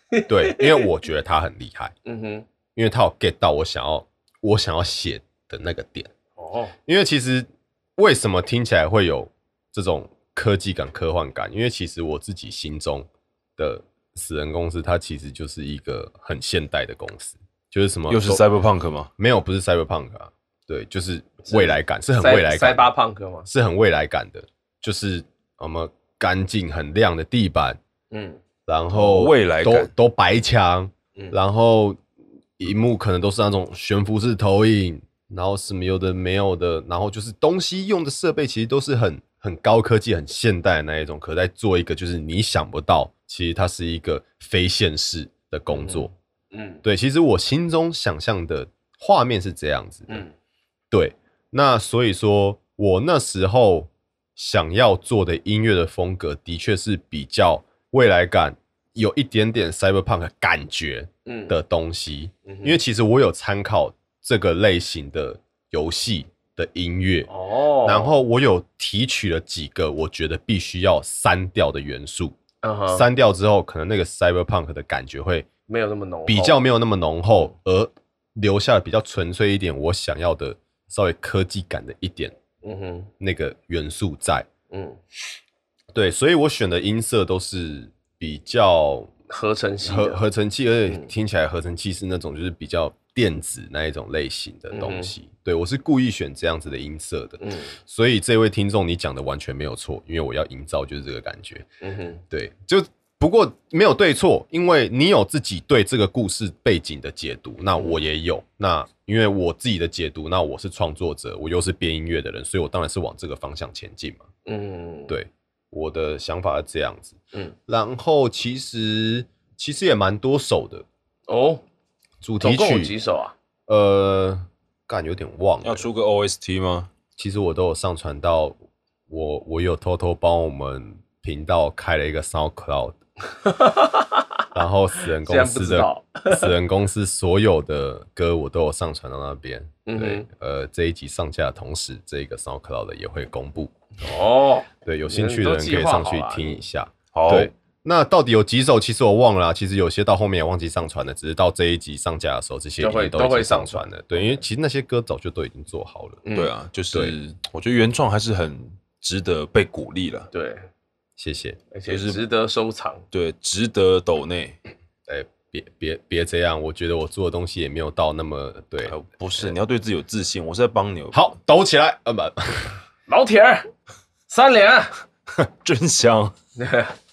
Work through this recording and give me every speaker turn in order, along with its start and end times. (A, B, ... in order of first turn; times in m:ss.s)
0:00.1-0:00.9 A
0:00.3-0:01.9 B
0:02.0-0:02.5 A
0:02.8-0:06.1 B
0:06.4-0:06.8 A
0:06.9-0:18.4 B
0:18.1-0:19.1 C
0:19.2-0:22.9 B
0:21.5-0:23.5 A
0:23.5-0:27.8 B
0:28.1-0:28.4 A
0:28.7-0:32.0 B
0:28.9-0:29.9 C
0:32.6-0:46.1 B
0:45.7-0:46.8 A
0:46.8-0:50.3 B
0:50.1-0:50.3 A
0:50.9-1:07.3 B
1:01.3-1:01.6 A
1:02.5-1:02.8 A
1:07.3-1:08.2 A
1:07.8-1:12.4 B
1:12.6-1:13.1 A
1:12.9-1:15.5 B
1:15.7-1:16.6 A
1:16.3-1:22.4 B
1:22.6-1:23.1 A
1:23.2-1:24.5 B
1:24.7-1:25.0 A
1:25.9-1:29.1 B
1:29.3-1:30.2 A
1:29.8-1:41.7 B
1:34.7-1:35.1 A
1:37.4-1:37.8 A
1:41.8-1:42.2 A
1:42.3-1:54.2 B
1:54.5-1:55.2 A
1:55.1-2:00.9 B
2:01.3-2:01.6 A
2:02.2-2:02.9 B
2:02.4-2:03.3 A
2:03.7-2:05.9 B
2:05.6-2:06.9 C
2:07.2-2:08.6 B
2:09.1-2:13.0 B
2:13.4-2:14.4 A
2:14.5-2:23.7 B
2:15.2-2:16.5 A
2:19.9-2:20.3 A
2:24.0-2:26.6 A
2:24.8-2:36.2 B
2:27.1-2:27.5 C
2:32.8-2:34.4 A
2:36.2-2:36.5 A
2:36.3-2:40.3 C
2:40.3-2:40.7 A
2:41.2-2:41.6 B
2:41.7-2:43.0 A
2:41.9-2:42.2 C
2:43.1-2:44.6 C
2:45.1-2:49.0 B
2:48.8-2:51.2 C
2:51.1-2:52.8 B
2:53.1-2:53.7 A
2:54.3-2:55.0 A
2:55.4-2:56.3 C
2:56.6-2:57.0 A